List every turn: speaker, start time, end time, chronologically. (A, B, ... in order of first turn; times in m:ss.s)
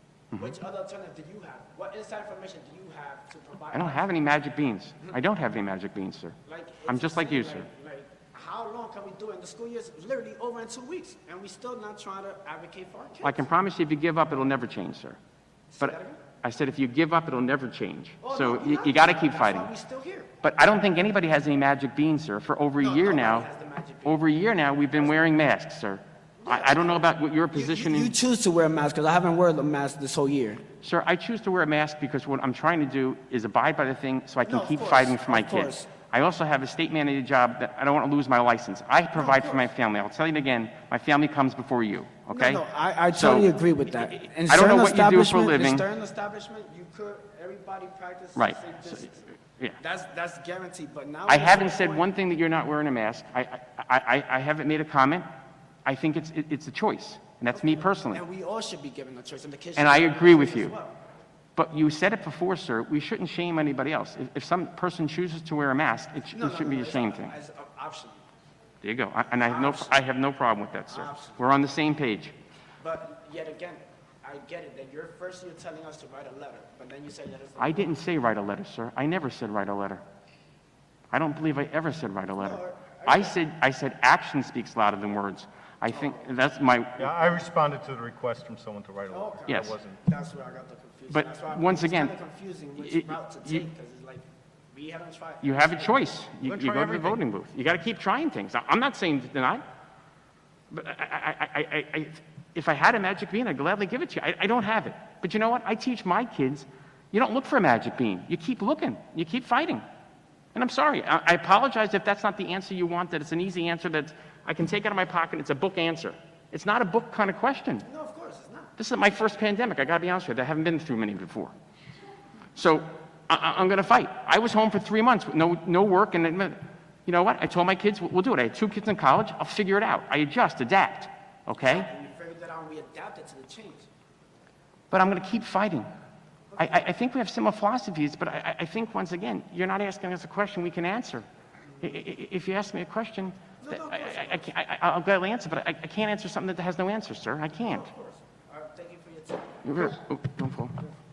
0:00.4-0:04.1 A
0:03.7-0:07.7 B
0:06.4-0:13.4 A
0:13.2-0:15.2 B
0:15.7-0:16.2 A
0:15.8-0:19.7 B
0:18.2-0:20.3 A
0:20.4-0:23.5 B
0:22.8-0:24.2 A
0:24.0-0:28.1 B
0:26.4-0:30.6 A
0:30.8-0:45.8 B
0:34.4-0:35.9 A
0:39.1-0:39.7 A
0:42.3-0:49.2 A
0:48.4-0:49.8 B
0:49.8-0:52.1 A
0:51.3-0:55.2 B
0:55.8-0:58.2 B
0:57.5-1:01.0 A
0:59.8-1:00.7 B
1:01.6-1:07.3 B
1:06.3-1:08.2 A
1:08.8-1:12.3 B
1:09.2-1:10.1 A
1:10.9-1:11.6 A
1:12.8-1:17.9 A
1:17.6-1:20.0 B
1:21.1-1:27.1 B
1:22.4-1:23.4 A
1:25.9-1:26.2 A
1:27.0-1:30.0 C
1:29.1-1:36.1 A
1:29.5-1:29.8 B
1:31.1-1:32.1 B
1:32.8-1:33.6 B
1:35.4-1:39.6 B
1:36.4-1:37.2 C
1:40.7-1:49.8 B
1:50.5-1:57.8 B
1:57.8-1:58.7 A
1:58.8-2:01.5 B
2:02.5-2:11.9 B
2:11.5-2:13.9 A
2:14.9-2:15.9 B
2:16.5-2:16.9 A
2:16.6-2:21.2 B
2:21.8-2:27.9 B
2:23.6-2:24.6 A
2:27.5-2:29.6 A
2:29.6-2:30.8 B